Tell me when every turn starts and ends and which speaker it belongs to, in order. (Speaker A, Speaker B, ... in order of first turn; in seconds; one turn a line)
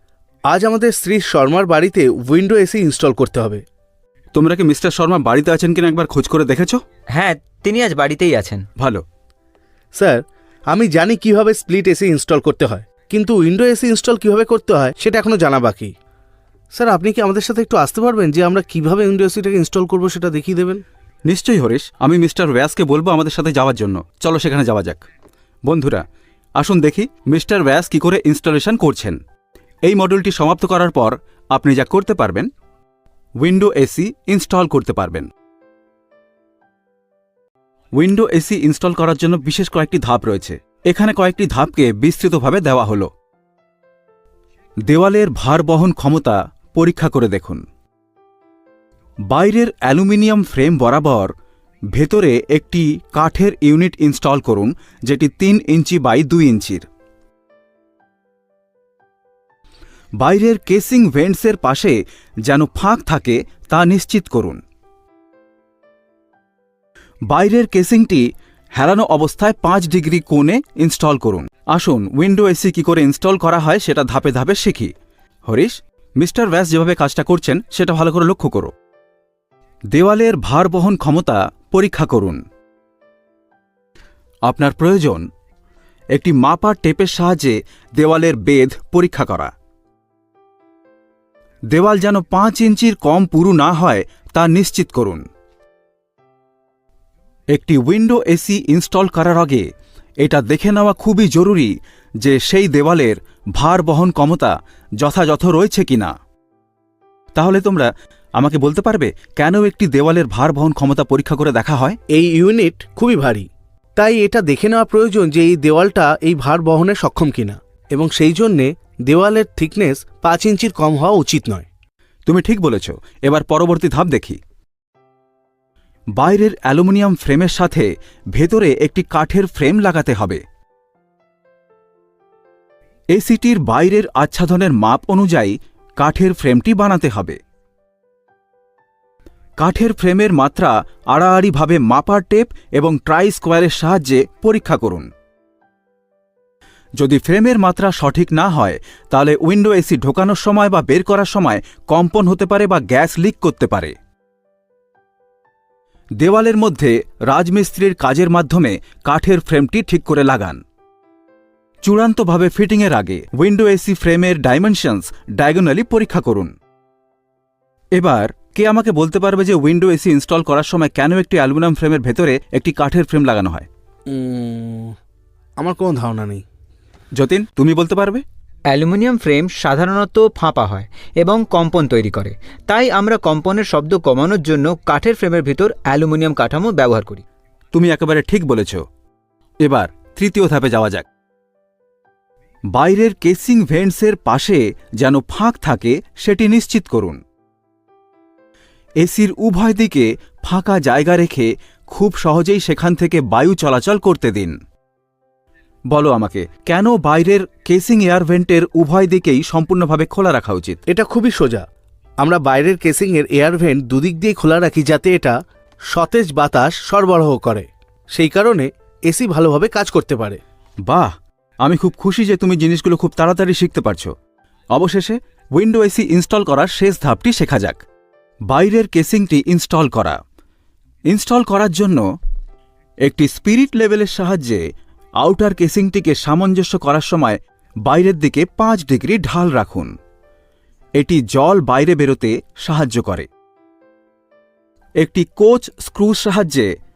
Speaker A: 0.5-3.6
Speaker B: 4.3-6.8
Speaker C: 7.1-8.7
Speaker B: 8.8-9.0
Speaker A: 9.9-15.9
Speaker A: 16.7-20.8
Speaker B: 21.2-25.0
Speaker B: 25.6-26.0
Speaker B: 26.6-29.2
Speaker B: 29.8-32.5
Speaker B: 33.4-35.3
Speaker B: 38.0-43.1
Speaker B: 44.9-47.6
Speaker B: 49.3-51.3
Speaker B: 51.9-56.8
Speaker B: 60.2-64.6
Speaker B: 67.3-74.9
Speaker B: 75.5-78.7
Speaker B: 79.9-82.4
Speaker B: 84.5-85.2
Speaker B: 86.1-89.5
Speaker B: 91.7-95.2
Speaker B: 97.5-99.7
Speaker B: 100.2-106.1
Speaker B: 107.3-112.0
Speaker A: 112.1-121.7
Speaker B: 122.2-124.4
Speaker B: 126.2-130.4
Speaker B: 133.1-137.4
Speaker B: 139.6-145.1
Speaker B: 147.0-153.9
Speaker B: 156.2-160.6
Speaker B: 161.8-166.5
Speaker B: 167.9-173.7
Speaker A: 174.1-174.9
Speaker A: 175.6-176.4
Speaker B: 177.1-178.2
Speaker C: 178.7-187.2
Speaker B: 187.7-188.8
Speaker B: 189.6-191.1
Speaker B: 192.7-197.2
Speaker B: 199.0-204.6
Speaker B: 205.9-210.8
Speaker A: 210.9-211.6
Speaker A: 212.2-215.4
Speaker A: 215.9-220.4
Speaker B: 220.8-221.1
Speaker B: 221.6-224.1
Speaker B: 224.7-227.8
Speaker B: 228.5-230.2
Speaker B: 231.1-232.0
Speaker B: 233.0-234.6
Speaker B: 235.2-239.9
Speaker B: 241.0-243.3
Speaker B: 245.0-246.7